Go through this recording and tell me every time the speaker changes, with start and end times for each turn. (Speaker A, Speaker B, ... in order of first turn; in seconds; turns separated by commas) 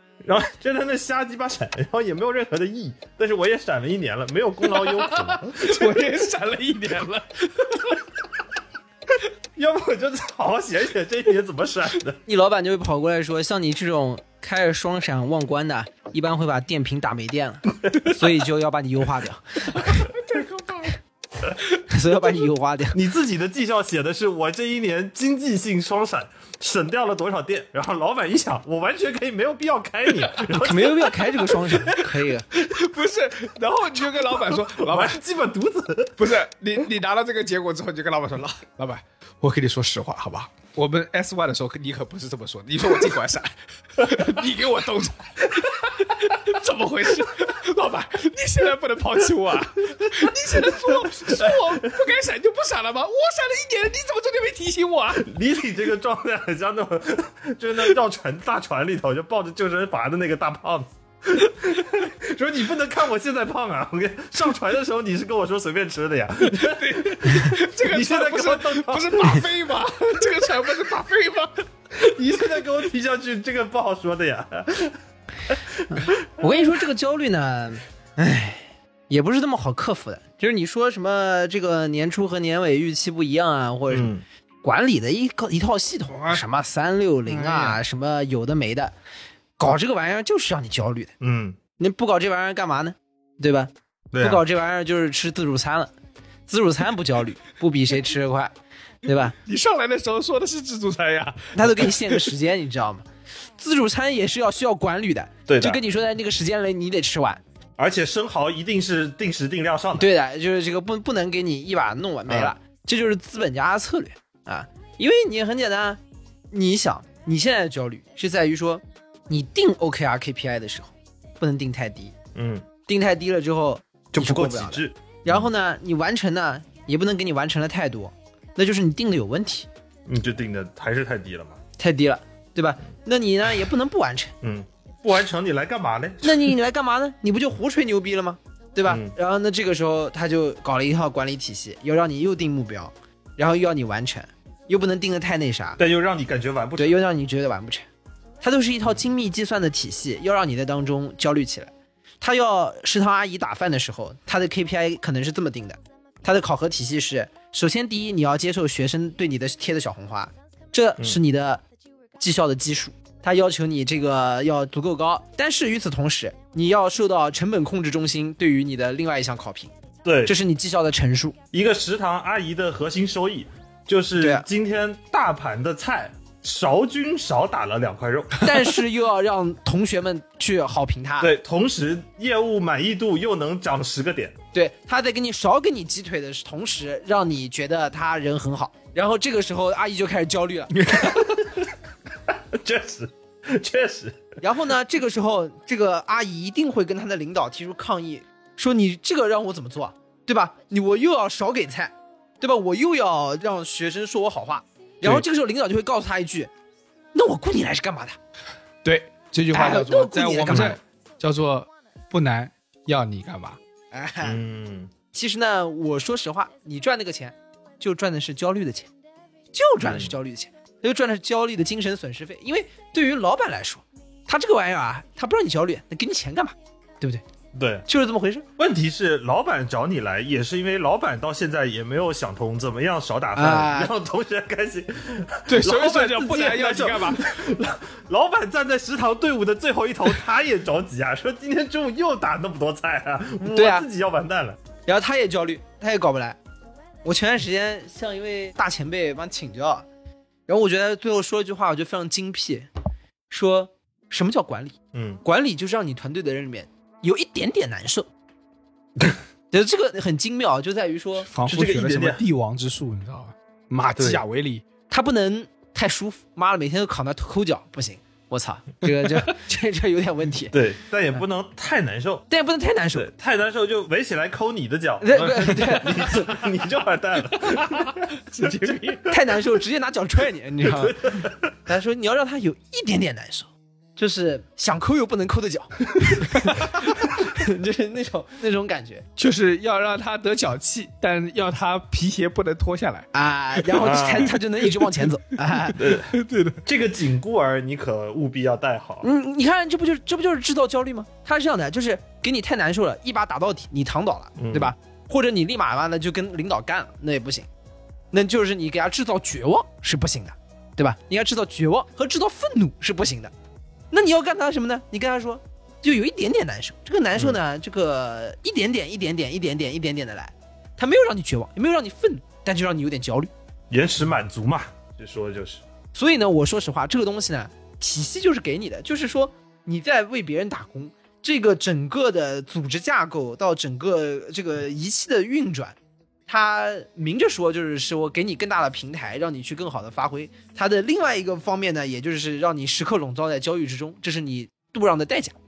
Speaker A: 0.2-6.0, Speaker B: 4.6-8.0, Speaker A: 9.6-12.2, Speaker C: 12.2-20.0, Speaker B: 19.9-20.9, Speaker C: 21.9-23.0, Speaker A: 22.9-31.6, Speaker C: 30.5-32.5, Speaker B: 31.7-35.2, Speaker A: 34.5-36.2, Speaker B: 36.2-55.3, Speaker A: 50.6-51.7, Speaker A: 55.2-69.5, Speaker B: 66.5-71.7, Speaker A: 72.0-75.0, Speaker A: 75.5-76.1, Speaker C: 75.9-84.1, Speaker A: 83.9-84.2, Speaker C: 84.6-88.9, Speaker B: 86.1-86.4, Speaker B: 87.3-87.8, Speaker C: 89.6-91.1, Speaker A: 91.2-91.6, Speaker C: 91.8-95.9, Speaker A: 94.1-94.4, Speaker C: 96.5-98.5, Speaker C: 99.0-99.3, Speaker B: 99.4-102.2, Speaker C: 101.5-103.0, Speaker C: 103.6-107.4, Speaker A: 105.5-105.8, Speaker A: 107.8-110.1, Speaker C: 110.0-116.0, Speaker C: 116.5-122.1, Speaker A: 122.3-122.6, Speaker C: 122.9-129.7, Speaker A: 124.1-125.4, Speaker A: 130.1-131.6, Speaker C: 131.8-134.3, Speaker A: 134.4-136.4, Speaker C: 136.2-145.8, Speaker A: 138.8-139.1, Speaker A: 145.8-147.0, Speaker C: 146.8-147.8, Speaker C: 148.4-161.6, Speaker C: 162.2-169.7, Speaker A: 170.0-170.3, Speaker C: 170.2-171.4, Speaker A: 171.5-178.8, Speaker C: 174.2-174.4, Speaker C: 178.4-181.3, Speaker A: 181.2-184.3, Speaker C: 184.5-191.2, Speaker A: 190.8-191.7, Speaker A: 192.5-194.2, Speaker C: 194.4-206.5, Speaker C: 207.1-208.2, Speaker B: 208.8-213.6, Speaker C: 209.5-210.8, Speaker C: 213.9-214.4, Speaker A: 214.2-214.9, Speaker C: 215.1-218.9, Speaker C: 219.5-227.2, Speaker A: 219.8-220.1, Speaker A: 227.5-227.8, Speaker C: 227.9-228.4, Speaker A: 228.6-244.6, Speaker C: 233.3-233.9, Speaker B: 235.5-237.4, Speaker C: 243.5-243.9, Speaker C: 244.9-246.4, Speaker C: 247.0-249.8, Speaker C: 250.5-252.7, Speaker C: 253.3-258.1, Speaker A: 254.9-255.2, Speaker C: 259.5-261.3, Speaker B: 261.3-264.6, Speaker A: 261.4-262.2, Speaker A: 264.0-264.2, Speaker C: 264.9-270.5, Speaker A: 270.5-272.3, Speaker C: 272.3-273.1, Speaker A: 272.9-279.1, Speaker C: 275.0-276.5, Speaker B: 277.4-279.1, Speaker C: 279.1-289.1, Speaker A: 280.6-281.5, Speaker B: 289.2-294.0, Speaker C: 293.1-295.8, Speaker A: 293.8-294.4, Speaker A: 295.8-299.1, Speaker B: 295.8-296.6, Speaker C: 299.0-307.5, Speaker A: 304.4-304.7, Speaker C: 308.1-313.3, Speaker C: 313.9-323.3, Speaker A: 323.7-325.6, Speaker C: 325.9-345.4